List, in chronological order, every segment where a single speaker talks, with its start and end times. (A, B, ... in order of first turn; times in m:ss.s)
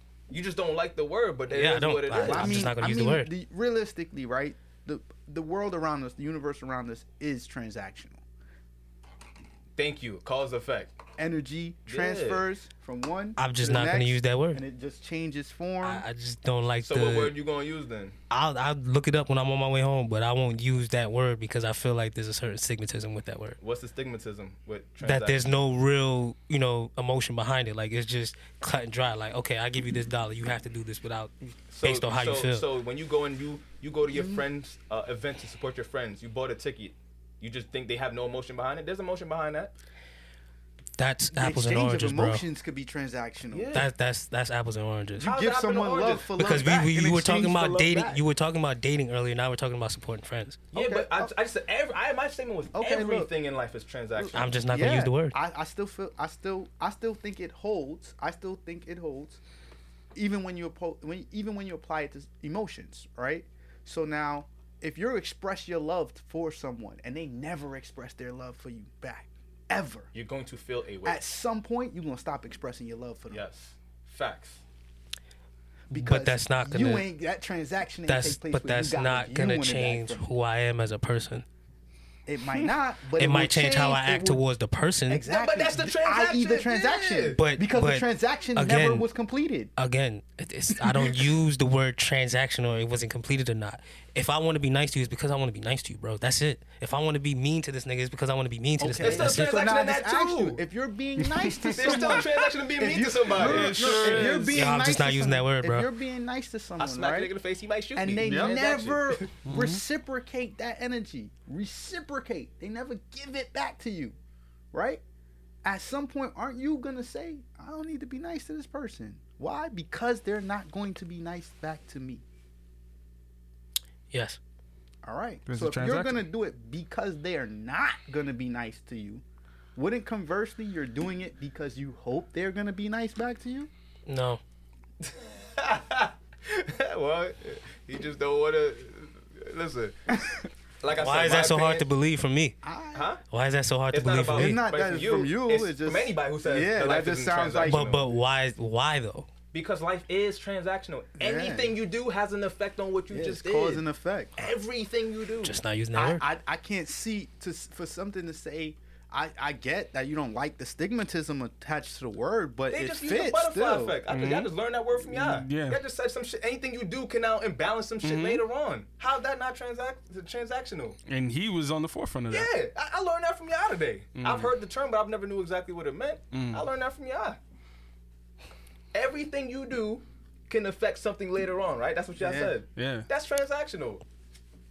0:00.3-0:02.7 A
0:01.5-0:03.3 B
0:02.1-0:08.2 C
0:09.8-0:11.0 A
0:11.2-0:16.0 C
0:11.9-0:12.4 A
0:13.4-0:14.6 B
0:15.8-0:17.4 B
0:16.8-0:18.2 A
0:18.3-0:23.6 B
0:23.6-0:25.5 A
0:25.0-0:32.6 B
0:31.7-0:39.7 A
0:34.1-0:34.4 C
0:41.0-0:42.4 B
0:41.3-0:43.9 C
0:43.5-0:43.9 A
0:43.7-0:45.3 B
0:45.2-0:46.3 A
0:45.2-0:48.2 C
0:46.4-0:50.6 B
0:50.7-0:54.5 A
0:50.7-0:51.3 C
0:52.7-0:53.3 C
0:54.2-0:59.4 C
0:54.3-0:55.4 B
1:00.2-1:10.1 C
1:10.1-1:11.2 A
1:11.0-1:13.4 C
1:13.3-1:14.6 A
1:15.9-1:17.1 B
1:15.9-1:20.3 C
1:18.1-1:21.4 B
1:22.3-1:24.4 C
1:23.2-1:25.2 B
1:25.1-1:29.7 C
1:25.3-1:27.4 A
1:27.4-1:29.1 B
1:29.8-1:39.7 B
1:30.8-1:31.2 C
1:38.8-1:47.3 C
1:39.0-1:40.6 A
1:41.2-1:42.3 D
1:41.7-1:44.4 A
1:43.3-1:44.6 D
1:44.5-1:45.9 B
1:46.8-1:49.3 A
1:47.9-1:54.2 C
1:48.2-1:48.6 D
1:49.4-1:49.8 D
1:54.7-1:55.0 C
1:55.6-2:02.2 C
2:04.1-2:04.4 B
2:05.0-2:09.2 C
2:05.5-2:06.2 D
2:09.8-2:13.7 C
2:14.1-2:14.4 B
2:15.0-2:19.9 A
2:20.2-2:20.4 C
2:20.8-2:21.9 A
2:20.9-2:22.6 B
2:22.6-2:23.1 C
2:22.9-2:23.2 A
2:23.3-2:24.6 B
2:23.9-2:28.1 A
2:24.3-2:27.9 C
2:27.6-2:29.3 B
2:29.5-2:33.8 A
2:31.2-2:31.8 C
2:33.1-2:34.5 C
2:34.4-2:35.6 A
2:35.4-2:36.2 B
2:35.9-2:44.0 C
2:42.7-2:51.0 A
2:44.1-2:44.5 D
2:45.0-2:45.8 D
2:48.0-2:48.4 D
2:51.1-2:52.5 D
2:52.3-2:57.4 A
2:54.2-2:54.5 D
2:56.3-2:56.6 D
2:58.9-3:04.0 A
3:02.2-3:02.6 C
3:02.7-3:03.1 D